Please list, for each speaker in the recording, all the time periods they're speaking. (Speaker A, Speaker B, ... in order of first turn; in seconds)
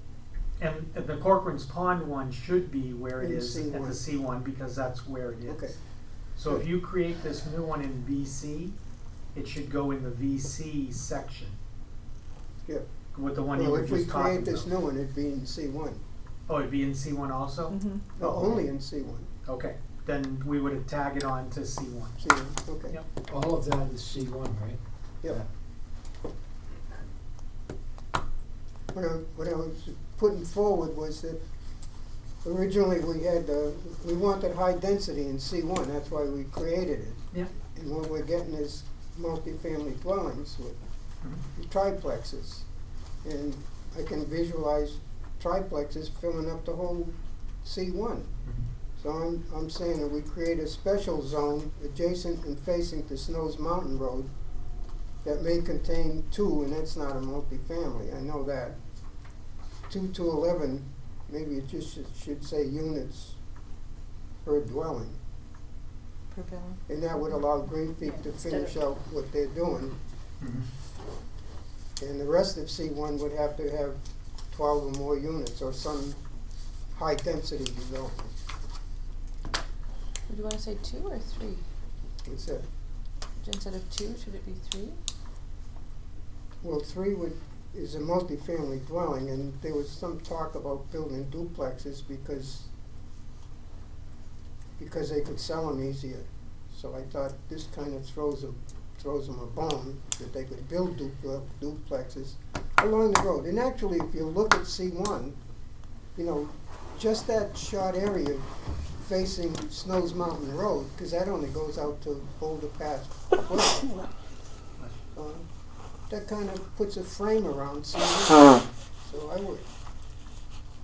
Speaker A: 0.6-5.7, 6.4-8.8, 9.3-11.6, 13.1-14.7, 16.5-18.7, 19.5-22.2, 70.4-70.7
Speaker B: 3.2-4.0, 5.5-5.8, 13.5-16.0, 18.2-19.3, 22.2-23.0, 28.9-31.4, 32.4-40.8, 41.5-42.7, 43.2-48.3, 49.0-54.3, 55.2-58.8, 59.9-63.4, 64.4-65.2, 66.9-70.0, 72.0-76.2, 76.9-78.3, 82.2-82.7, 86.6-92.7, 94.8-105.4, 106.2-108.5, 109.0-114.0, 115.2-115.4, 116.1-119.7
Speaker C: 23.3-25.5
Speaker D: 66.3-66.8, 68.0-68.8, 80.3-81.6, 83.4-85.0